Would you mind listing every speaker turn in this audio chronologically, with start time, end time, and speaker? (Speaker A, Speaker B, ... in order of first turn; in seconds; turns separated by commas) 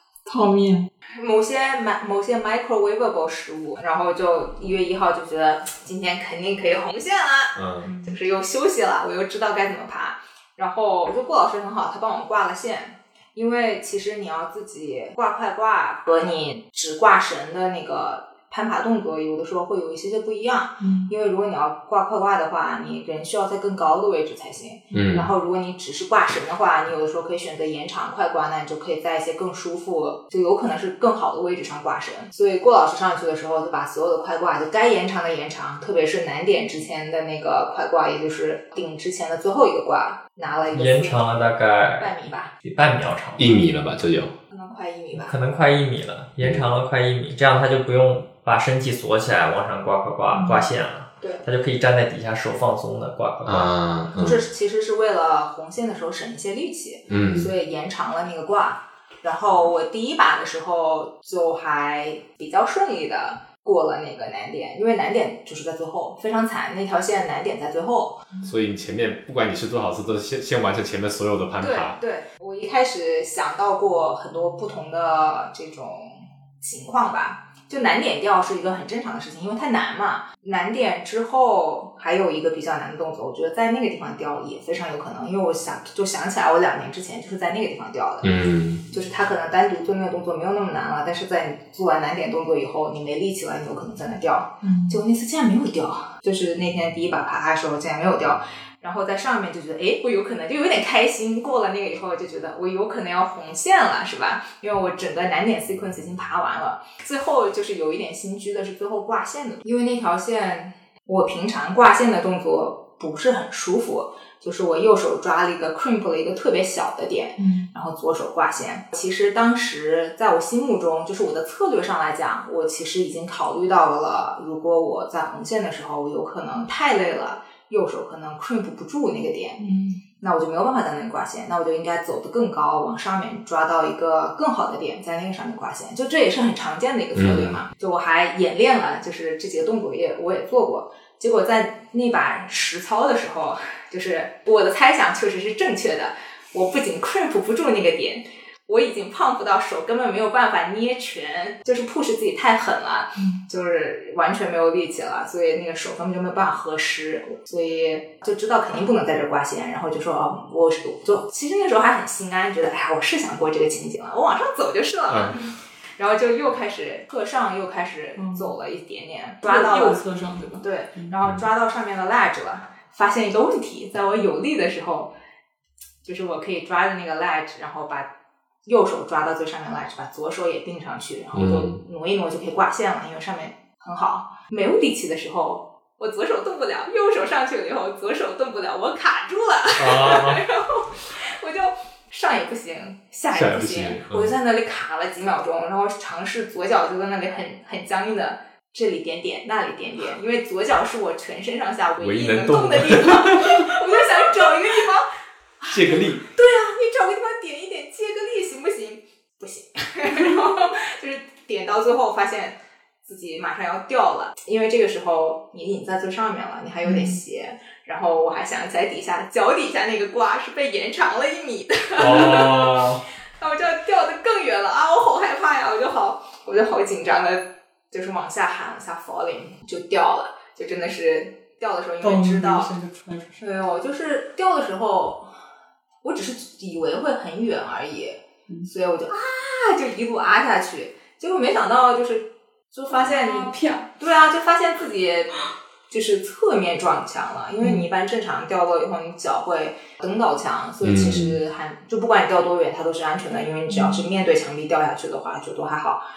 Speaker A: 0.2-0.9, Speaker B: 1.1-41.2, Speaker C: 7.5-7.9, Speaker A: 7.8-8.2, Speaker A: 20.8-21.1, Speaker C: 24.9-25.3, Speaker D: 40.7-43.5, Speaker B: 42.0-42.5, Speaker C: 43.4-44.3, Speaker B: 44.5-45.4, Speaker D: 45.1-53.7, Speaker C: 46.4-46.7, Speaker A: 50.3-50.7, Speaker C: 53.5-54.4, Speaker B: 54.2-68.3, Speaker C: 57.1-57.5, Speaker C: 68.4-72.0, Speaker B: 71.6-129.6, Speaker C: 88.2-88.8, Speaker A: 94.6-95.0, Speaker A: 117.4-117.7, Speaker A: 129.6-130.0, Speaker B: 130.2-165.4, Speaker C: 137.1-137.6, Speaker C: 165.1-165.4, Speaker B: 166.0-170.0, Speaker A: 168.2-168.5, Speaker A: 169.4-171.1, Speaker B: 170.6-175.1, Speaker B: 176.0-178.1, Speaker B: 178.6-205.1, Speaker C: 181.3-181.8, Speaker C: 189.8-190.4, Speaker C: 193.3-194.3, Speaker C: 202.0-203.8, Speaker B: 205.6-232.7, Speaker C: 205.7-206.3, Speaker A: 216.8-217.2, Speaker D: 222.0-223.0, Speaker C: 222.0-222.3, Speaker A: 232.0-233.5, Speaker B: 233.4-235.3, Speaker B: 236.0-245.3, Speaker A: 242.9-243.9, Speaker B: 245.9-256.0, Speaker A: 247.6-247.9, Speaker C: 250.8-251.4, Speaker A: 253.7-254.0